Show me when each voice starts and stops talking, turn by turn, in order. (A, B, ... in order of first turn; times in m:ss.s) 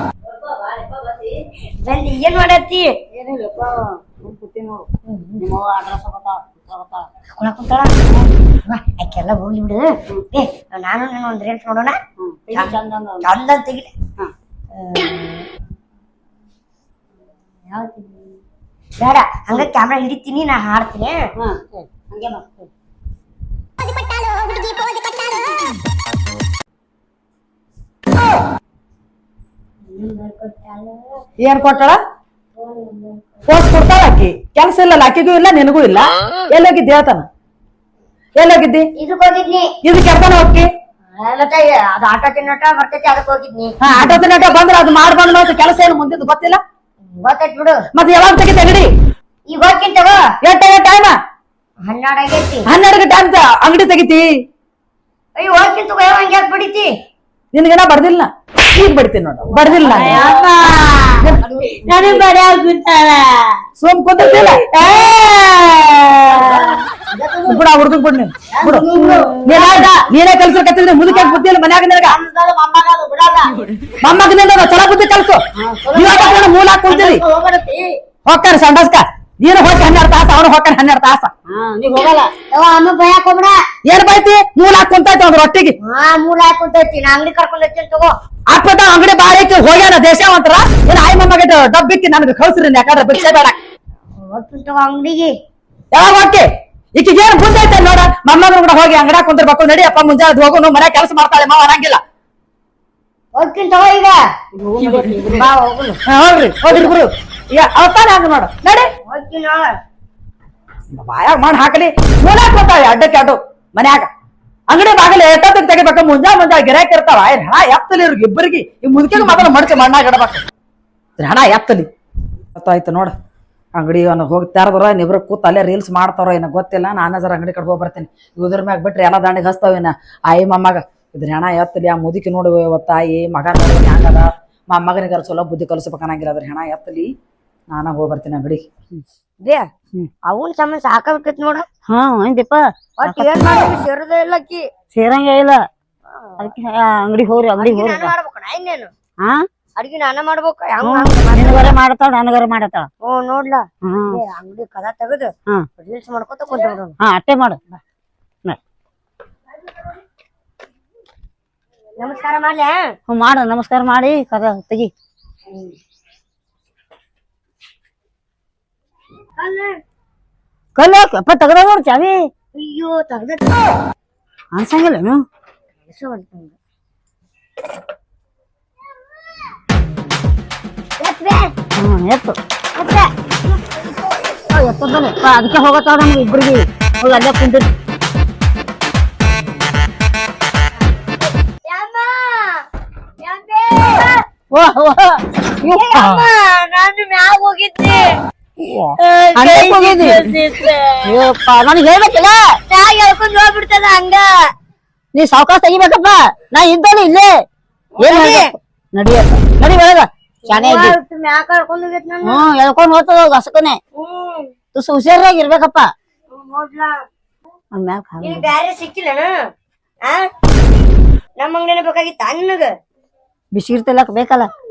0:00.3-0:01.1 A
0:01.8-0:02.9 B
0:03.1-0:07.1 A
0:07.4-0:07.9 B
0:08.7-0:12.0 B
0:12.2-0:13.2 A
0:12.5-0:13.9 B
0:14.8-0:15.4 B
0:17.7-0:18.4 B
0:19.0-0:21.2 B
0:21.4-0:22.7 A
0:29.8-0:31.2 B
0:31.4-0:32.0 C
0:32.6-0:33.4 B
0:33.5-0:37.3 C
0:38.4-0:38.9 C
0:39.0-0:39.7 B
0:39.8-0:40.7 C
0:41.2-0:43.7 B
0:43.8-0:46.6 C
0:47.2-0:47.8 B
0:47.9-0:48.9 C
0:49.5-0:50.2 B
0:50.4-0:51.2 C
0:51.8-0:52.7 B
0:52.6-0:54.3 C
0:55.4-0:56.9 B
0:57.5-1:00.2 C
0:59.8-1:01.3 B
1:01.8-1:03.4 B
1:03.8-1:04.6 C
1:04.7-1:06.8 B
1:07.4-1:08.9 C
1:08.8-1:10.0 B
1:09.4-1:12.2 C
1:14.0-1:15.4 C
1:15.6-1:16.5 A
1:15.9-1:17.2 C
1:18.2-1:21.3 C
1:21.5-1:22.3 A
1:22.5-1:23.6 B
1:23.8-1:25.7 C
1:25.8-1:28.2 B
1:28.5-1:33.6 C
1:34.2-1:35.3 B
1:35.9-1:42.0 C
1:43.3-1:44.2 B
1:44.6-1:45.4 A
1:45.2-1:46.0 B
1:46.0-1:48.9 C
1:49.1-1:49.7 B
1:50.9-1:54.1 C
1:54.7-2:00.4 C
2:01.2-2:01.9 C
2:02.5-2:03.1 C
2:03.7-2:17.1 C
2:17.7-2:18.6 C
2:20.3-2:21.6 B
2:21.9-2:23.7 A
2:23.0-2:24.6 B
2:24.9-2:25.6 A
2:26.2-2:26.5 B
2:26.4-2:28.1 A
2:27.6-2:28.9 B
2:29.8-2:31.7 B
2:30.8-2:32.9 A
2:33.0-2:36.9 B
2:33.8-2:34.2 A
2:37.0-2:37.6 A
2:42.0-2:42.8 B
2:43.1-2:44.9 A
2:45.5-2:45.8 B
2:49.4-2:49.7 B
2:50.8-2:52.2 A
2:52.5-2:53.7 B
2:54.5-2:55.2 A
2:55.9-2:56.5 B
3:01.0-3:01.5 B
3:01.8-3:02.4 A
3:02.7-3:03.1 B
3:04.5-3:07.7 A
3:11.6-3:12.6 B
3:13.2-3:14.1 B
3:14.5-3:16.2 A
3:15.6-3:18.2 B
3:18.6-3:20.3 A
3:19.0-3:21.2 B
3:21.0-3:22.4 A
3:22.7-3:24.3 B
3:25.1-3:27.4 A
3:28.0-3:28.5 B
3:28.0-3:31.0 A
3:30.5-3:32.4 B
3:32.2-3:33.8 A
3:33.9-3:34.5 B
3:34.7-3:35.9 A
3:36.3-3:37.0 B
3:37.7-3:38.5 A
3:38.2-3:39.3 B
3:41.4-3:42.7 B
3:43.5-3:44.5 A